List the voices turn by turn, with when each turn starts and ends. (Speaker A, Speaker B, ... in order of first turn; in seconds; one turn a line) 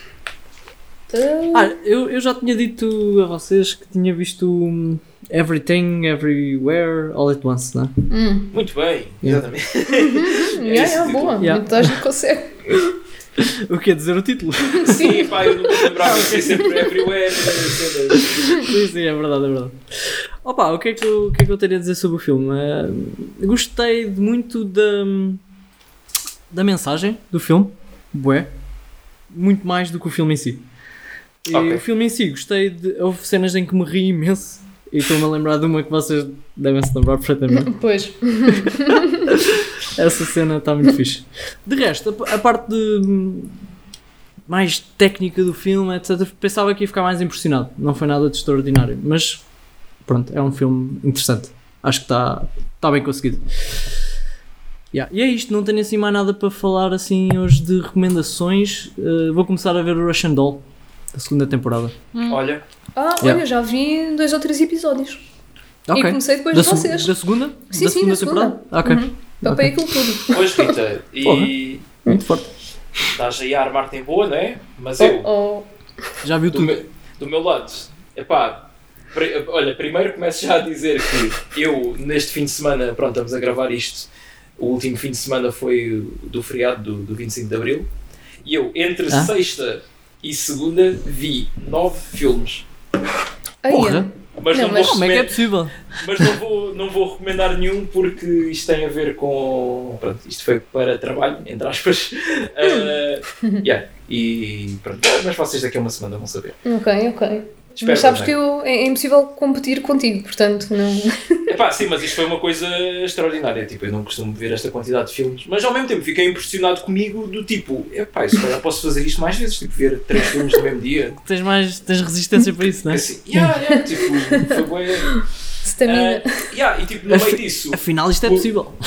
Speaker A: 1.1-1.8
Speaker B: 1.5-7.9
Speaker A: 8.1-8.5
Speaker C: 8.5-11.5
Speaker A: 9.9-12.8
Speaker B: 11.4-12.0
Speaker B: 13.4-17.7
Speaker A: 14.8-15.5
Speaker C: 14.8-18.5
Speaker B: 18.5-19.8
Speaker B: 20.4-25.4
Speaker B: 26.5-28.5
Speaker B: 29.3-30.6
Speaker B: 31.4-37.7
Speaker C: 31.5-31.8
Speaker A: 37.5-39.3
Speaker B: 38.5-43.6
Speaker B: 44.5-49.4
Speaker B: 50.0-53.5
Speaker B: 54.9-61.9
Speaker C: 62.3-62.6
Speaker A: 63.0-65.2
Speaker B: 65.9-70.0
Speaker A: 65.9-67.1
Speaker A: 67.7-70.8
Speaker C: 70.3-71.9
Speaker B: 71.2-71.5
Speaker B: 72.1-72.5
Speaker C: 73.1-75.3
Speaker A: 75.0-75.7
Speaker B: 76.2-76.8
Speaker C: 76.5-87.9
Speaker C: 88.4-92.6
Speaker A: 93.6-95.1
Speaker B: 93.7-94.1
Speaker C: 94.4-106.6
Speaker B: 94.7-96.3
Speaker A: 102.6-102.9
Speaker A: 106.6-111.5
Speaker C: 107.8-108.3
Speaker C: 111.5-121.2
Speaker B: 121.2-123.5
Speaker C: 122.9-125.2
Speaker A: 124.3-126.5
Speaker C: 125.8-128.5
Speaker B: 127.1-128.8